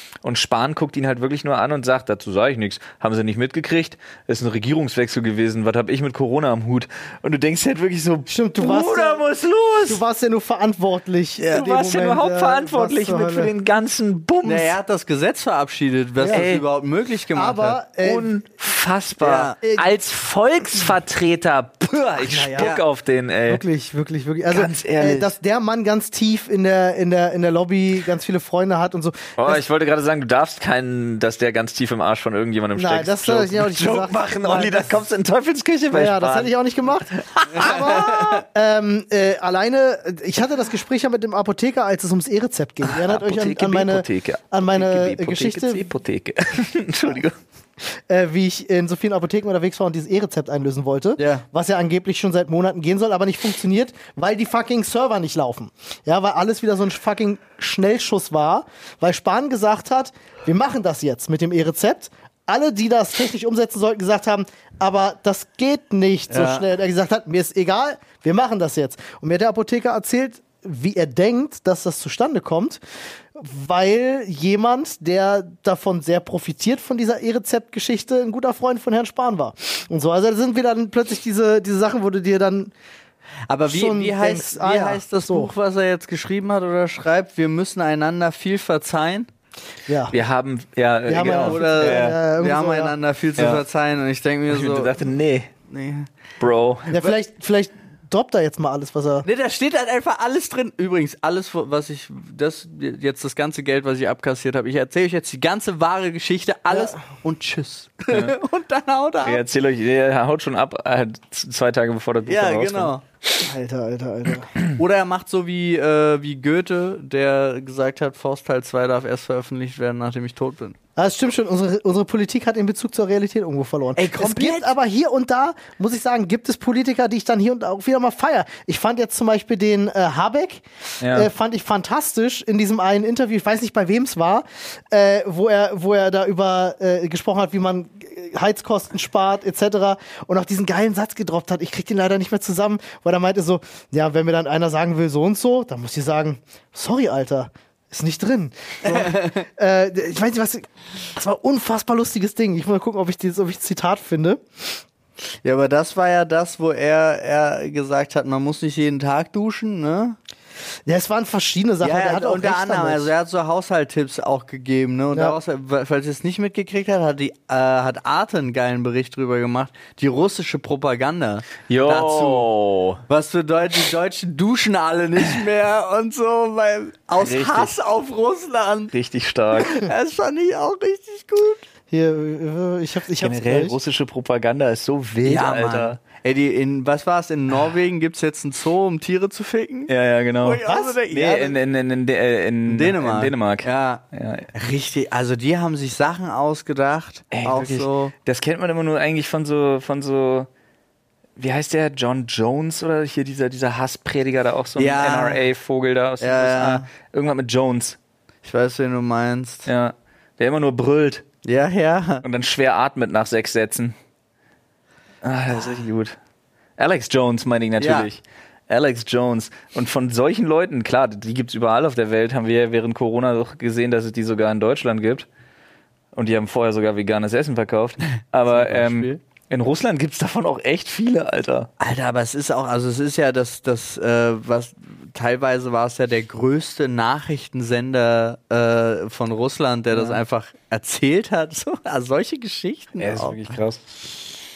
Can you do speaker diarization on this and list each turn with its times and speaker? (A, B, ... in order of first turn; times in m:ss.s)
0:00.2-0:10.0 A
0:08.3-0:09.2 B
0:09.9-0:13.5 B
0:11.4-0:14.7 A
0:14.4-0:17.8 C
0:16.2-0:16.5 B
0:16.3-0:16.6 A
0:17.3-0:18.3 B
0:18.0-0:23.6 A
0:19.2-0:19.6 C
0:19.6-0:19.9 B
0:22.2-0:22.8 B
0:22.6-0:22.8 C
0:23.5-0:29.6 B
0:24.5-0:25.3 A
0:29.4-0:36.5 A
0:32.8-0:35.0 B
0:35.9-0:45.9 B
0:37.2-0:37.9 A
0:37.6-0:38.4 C
0:42.8-0:47.4 A
0:47.8-1:12.8 B
0:51.2-0:51.4 C
1:06.3-1:06.6 C
1:13.3-1:22.7 B
1:23.5-1:29.3 C
1:23.7-1:25.5 B
1:29.9-1:30.2 B
1:30.1-1:32.2 A
1:31.1-1:33.0 B
1:31.3-1:35.0 C
1:33.4-1:33.6 A
1:34.5-1:35.5 A
1:35.7-1:36.1 C
1:36.4-1:36.9 A
1:36.9-1:39.3 B
1:39.2-1:49.4 C
1:46.7-1:47.0 B
1:48.1-1:48.4 A
1:49.2-1:52.9 A
1:52.3-1:53.0 C
1:53.4-1:54.5 B
1:54.8-2:00.8 C
2:01.0-2:34.8 B
2:04.0-2:04.7 C
2:11.0-2:11.3 A
2:28.9-2:29.4 C
2:35.4-2:40.2 C
2:40.9-2:43.1 B
2:41.8-2:52.5 C
2:51.7-2:53.0 A
2:53.1-2:58.9 C
2:57.2-2:57.8 A
2:58.9-2:59.9 A
2:59.6-3:01.6 C
3:01.9-3:03.8 B
3:03.2-3:06.0 A
3:05.2-3:09.9 C
3:09.9-3:14.5 A
3:10.4-3:11.6 C
3:10.6-3:11.0 B
3:12.7-3:18.1 C
3:17.3-3:20.5 A
3:21.4-3:28.0 A
3:24.8-3:25.4 C
3:26.2-3:26.9 C
3:28.4-3:29.7 C
3:29.7-3:31.2 A
3:31.4-3:32.2 C
3:32.2-3:34.0 A
3:35.2-3:36.2 A
3:36.8-3:45.3 A
3:37.8-3:38.1 C
3:46.2-3:51.7 A
3:48.5-3:49.2 C
3:51.8-4:03.5 C
3:59.9-4:00.2 A
4:03.0-4:04.0 A